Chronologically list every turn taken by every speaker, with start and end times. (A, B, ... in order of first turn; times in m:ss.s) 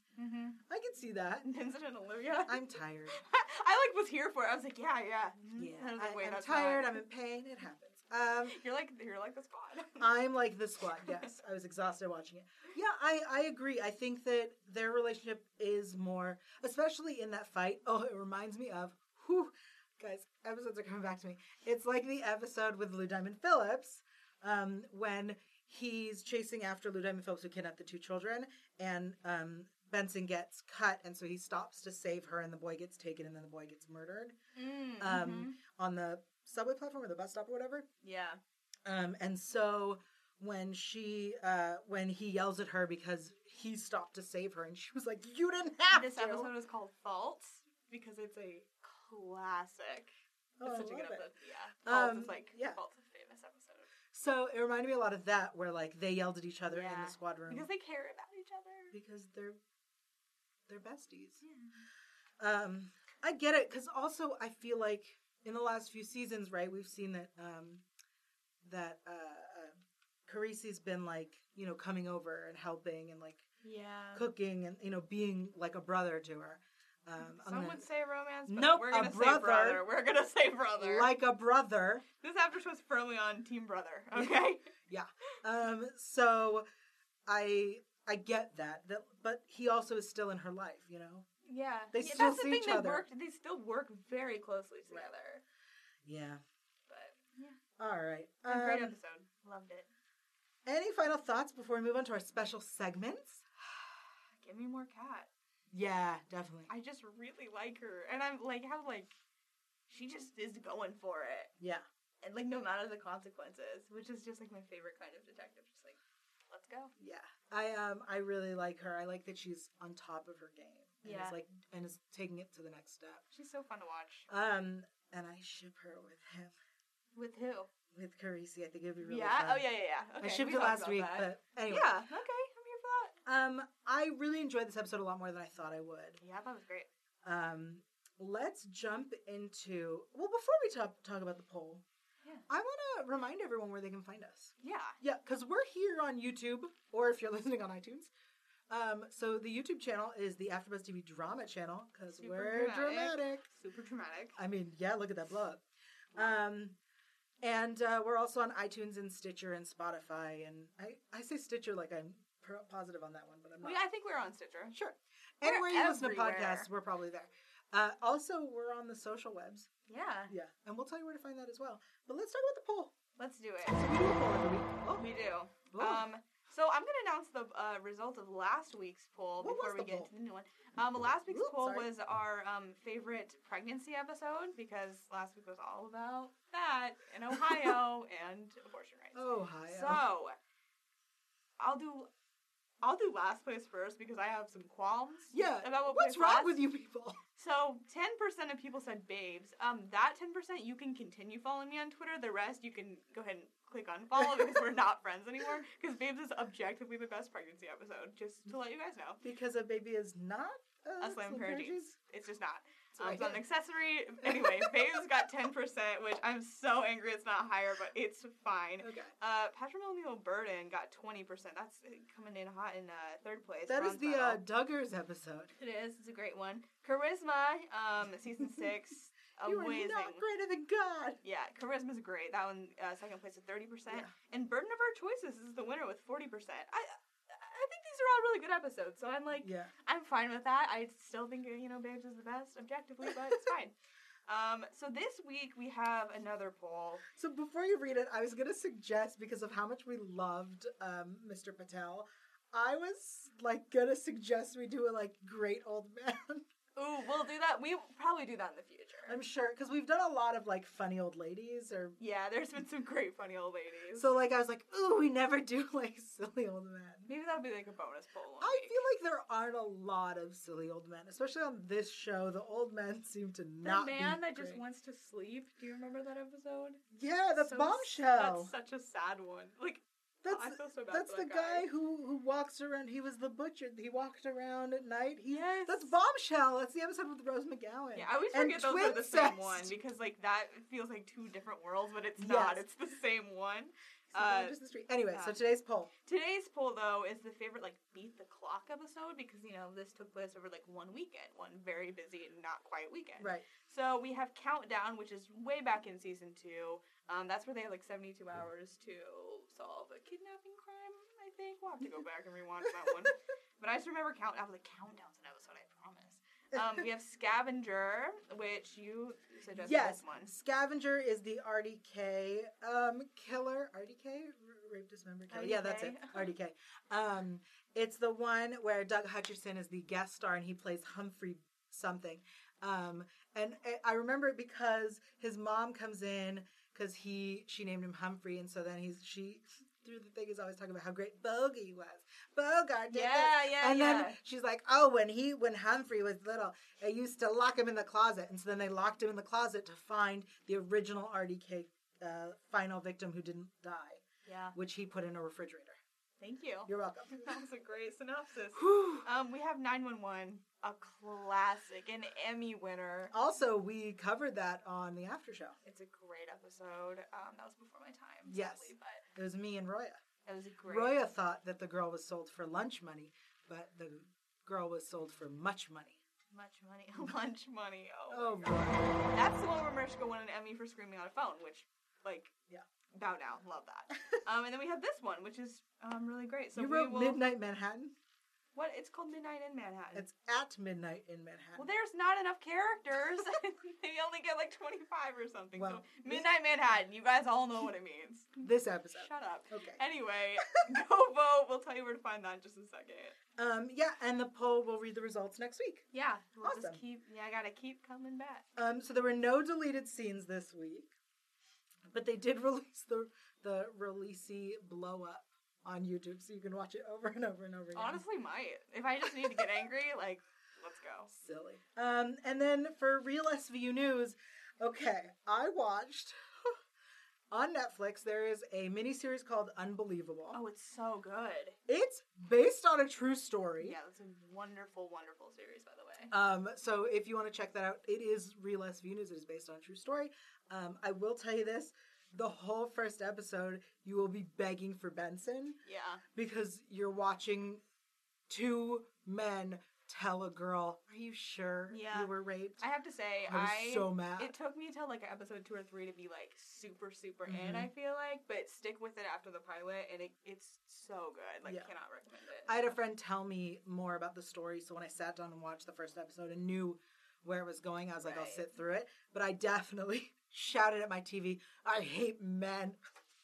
0:00.2-0:00.6 A
0:00.7-0:01.5 B
0:01.4-0:07.0 A
0:02.4-0:03.2 B
0:05.6-0:08.6 B
0:08.5-0:10.1 A
0:10.0-0:34.4 B
0:11.0-0:11.3 A
0:34.6-0:35.6 A
0:35.0-0:37.9 B
0:38.0-0:38.4 A
0:38.9-0:46.5 B
0:45.9-0:50.1 A
0:50.6-0:51.3 B
0:50.6-0:53.9 A
0:51.8-0:52.8 B
0:54.1-0:57.7 B
0:56.7-0:59.0 A
0:58.9-0:59.6 B
1:00.7-1:01.4 B
1:01.4-1:01.8 A
1:02.4-1:07.8 B
1:08.6-1:09.8 B
1:10.3-1:13.4 B
1:13.6-1:14.2 A
1:14.1-1:17.8 B
1:17.2-1:21.1 A
1:18.5-1:19.8 B
1:20.8-1:22.0 B
1:22.2-1:24.7 A
1:24.1-1:26.7 B
1:27.3-1:31.3 B
1:31.4-1:35.4 A
1:31.9-1:33.0 B
1:36.0-1:36.4 B
1:36.9-1:37.6 A
1:37.8-1:39.0 B
1:38.5-1:39.9 A
1:40.7-1:43.5 B
1:44.4-1:45.3 A
1:45.7-1:46.7 B
1:46.7-1:49.1 A
1:49.9-1:51.5 A
1:51.6-1:51.8 B
1:52.2-1:56.0 A
1:56.5-1:56.9 A
1:57.0-2:03.2 B
2:01.0-2:01.4 A
2:03.3-2:04.3 A
2:04.3-2:06.6 B
2:07.1-2:07.7 A
2:07.9-2:09.7 B
2:09.0-2:13.1 A
2:10.2-2:12.0 B
2:13.3-2:16.2 B
2:16.2-2:16.9 A
2:17.2-2:21.8 B
2:22.5-2:28.1 B
2:24.6-2:25.0 A
2:28.7-2:33.4 B
2:32.1-2:34.4 A
2:34.4-2:35.6 B
2:36.1-2:36.8 B
2:37.4-2:43.8 B
2:43.6-2:44.8 A
2:44.7-2:49.7 B
2:45.4-2:46.7 A
2:49.9-2:50.3 A
2:50.3-2:53.0 B
2:53.2-2:53.9 A
2:53.7-2:55.1 B
2:55.0-3:10.4 A
2:55.7-2:56.1 B
2:59.4-3:00.1 B
3:01.3-3:01.9 B
3:07.3-3:07.7 B
3:09.1-3:10.0 B
3:11.6-3:12.1 A
3:12.8-3:16.6 A
3:15.3-3:17.2 B
3:17.4-3:29.2 A
3:24.2-3:24.5 B
3:29.2-3:32.0 B
3:31.0-3:44.4 A
3:33.0-3:33.4 B
3:34.2-3:35.0 B
3:38.8-3:39.1 B
3:43.7-3:45.5 B
3:45.6-3:50.2 A
3:49.4-3:51.2 B
3:51.2-4:03.7 A
3:59.4-3:59.7 B
4:04.3-4:07.0 A
4:07.1-4:16.4 B
4:16.8-4:19.2 A
4:19.1-4:22.0 B
4:22.0-4:24.1 A
4:24.0-4:27.1 B
4:27.0-4:28.8 A
4:28.4-4:34.6 B
4:33.6-4:36.8 A
4:36.9-4:38.5 B
4:37.4-4:41.7 A
4:40.2-4:49.8 B
4:45.3-4:46.0 A
4:48.0-4:54.6 A
4:52.2-4:52.6 B
4:54.1-4:55.9 B
4:56.1-5:20.3 A
5:03.2-5:03.4 B
5:19.6-5:54.0 B
5:25.3-5:26.3 A
5:42.9-5:44.2 A
5:54.2-5:54.6 A
5:54.5-5:55.8 B
5:56.2-6:03.1 A
5:56.7-5:57.4 B
5:58.5-5:59.1 B
6:03.1-6:05.6 B
6:05.6-6:09.0 A
6:08.3-6:10.0 B
6:10.2-6:11.0 A
6:10.7-6:16.0 B
6:16.3-6:22.3 A
6:18.1-6:19.1 B
6:23.0-6:27.2 A
6:26.6-6:27.9 B
6:28.6-6:30.1 A
6:29.9-6:31.7 B
6:31.6-6:43.2 A
6:35.6-6:36.3 B
6:38.4-6:39.8 B
6:43.4-6:45.9 B
6:45.9-6:48.4 A
6:46.4-6:46.8 B
6:48.6-6:50.9 B
6:51.9-6:58.0 B
6:57.7-7:01.1 A
7:01.1-7:06.6 B
7:07.3-7:10.4 B
7:10.3-7:11.6 A
7:11.7-7:13.8 B
7:13.6-7:16.1 A
7:16.1-7:25.6 B
7:25.6-7:26.0 A
7:26.1-7:27.6 B
7:28.3-7:32.6 B
7:31.7-7:42.7 A
7:33.3-7:34.3 B
7:37.3-7:37.7 B
7:41.4-7:41.7 B
7:42.4-7:52.8 B
7:48.0-7:48.4 A